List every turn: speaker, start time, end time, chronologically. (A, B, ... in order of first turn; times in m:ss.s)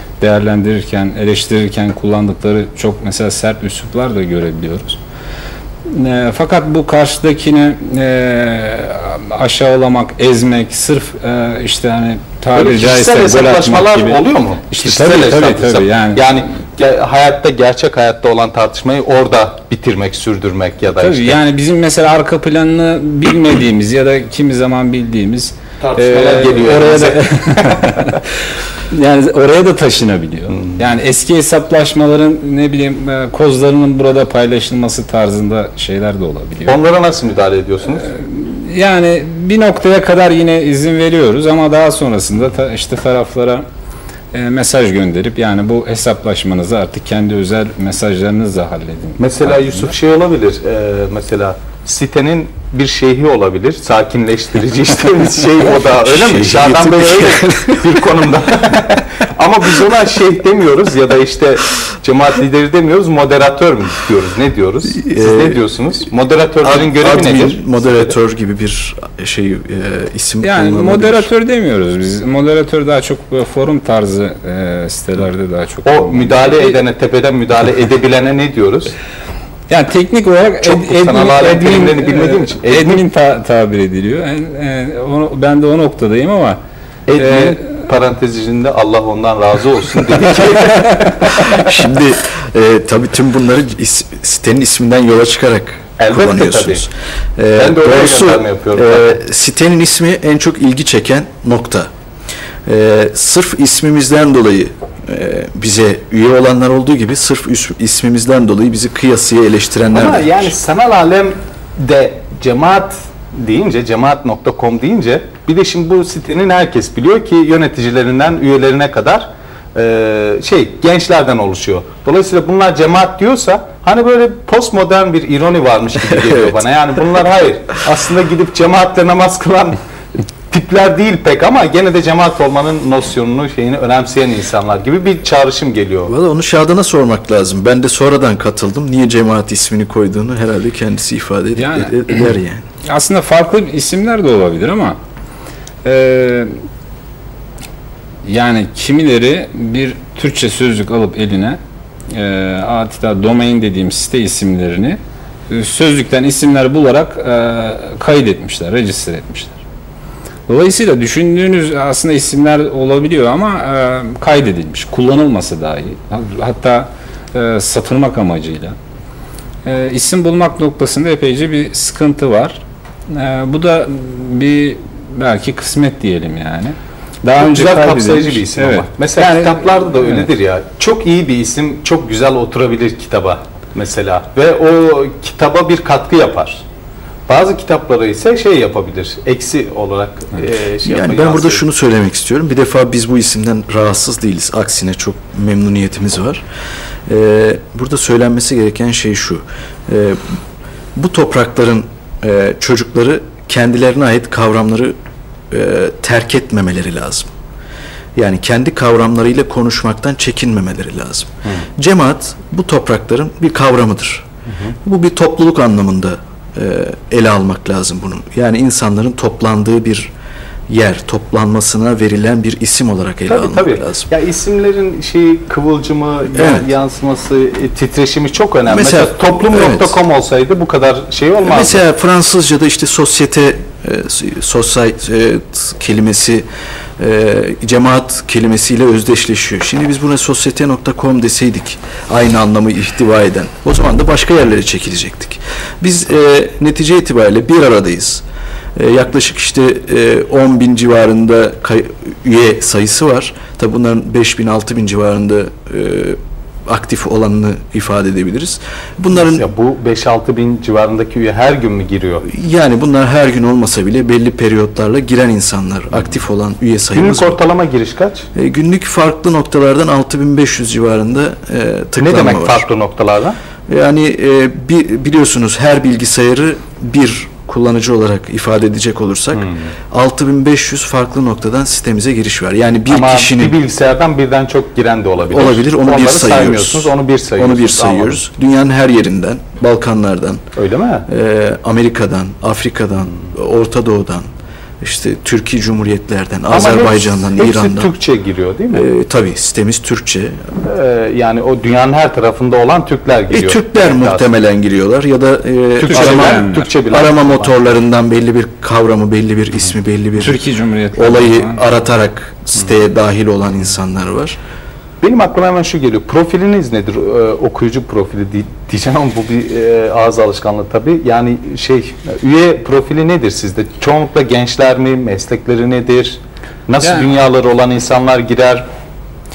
0:00.2-0:05.0 A
0:05.9-0:16.2 A
0:12.5-0:21.4 B
0:20.9-0:28.2 A
0:25.8-0:27.8 B
0:28.9-0:36.8 A
0:30.5-0:30.8 B
0:36.6-0:38.1 B
0:38.0-0:43.6 A
0:44.3-0:49.9 A
0:49.2-1:08.1 B
0:56.0-0:57.8 C
1:05.0-1:05.6 C
1:06.6-1:11.3 C
1:10.4-1:16.8 A
1:15.8-1:19.0 B
1:19.7-1:26.6 A
1:20.6-1:23.0 B
1:27.1-1:31.7 B
1:27.2-1:27.6 A
1:31.5-1:41.9 C
1:36.0-1:36.8 B
1:37.6-1:39.2 B
1:42.6-1:50.5 C
1:49.9-2:09.8 B
2:06.2-2:06.5 C
2:10.5-2:16.1 B
2:16.1-2:22.6 C
2:21.6-2:22.3 A
2:22.8-2:25.0 A
2:25.8-2:26.5 A
2:28.2-2:31.6 A
2:32.1-2:35.0 A
2:35.5-2:39.6 A
2:40.5-2:48.8 A
2:49.6-3:00.3 A
2:57.4-3:06.6 B
3:07.3-3:11.6 B
3:10.8-3:16.4 C
3:17.1-3:20.3 C
3:21.0-3:24.9 C
3:25.5-3:27.3 C
3:28.2-3:34.2 C
3:34.8-3:40.1 C
3:40.7-3:44.1 C
3:43.3-3:51.8 B
3:46.3-3:46.6 C
3:48.7-3:50.0 C
3:51.4-3:56.4 C
3:57.0-4:08.2 C
4:08.7-4:19.5 C
4:19.1-4:22.3 B
4:22.2-4:27.4 C
4:26.9-4:28.3 B
4:28.3-4:32.6 C
4:32.0-4:33.4 B
4:33.7-4:43.5 C
4:39.3-4:39.7 B
4:42.9-4:48.2 B
4:45.3-4:50.4 C
4:50.6-4:51.1 B
4:51.1-4:54.2 C
4:54.8-4:57.9 C
4:56.5-4:58.9 B
4:58.7-5:00.4 C
5:00.6-5:04.3 B
5:03.3-5:10.4 C
5:05.8-5:07.5 B
5:05.9-5:06.7 A
5:10.2-5:11.7 A
5:10.9-5:14.4 C
5:15.0-5:28.6 B
5:26.8-5:27.1 A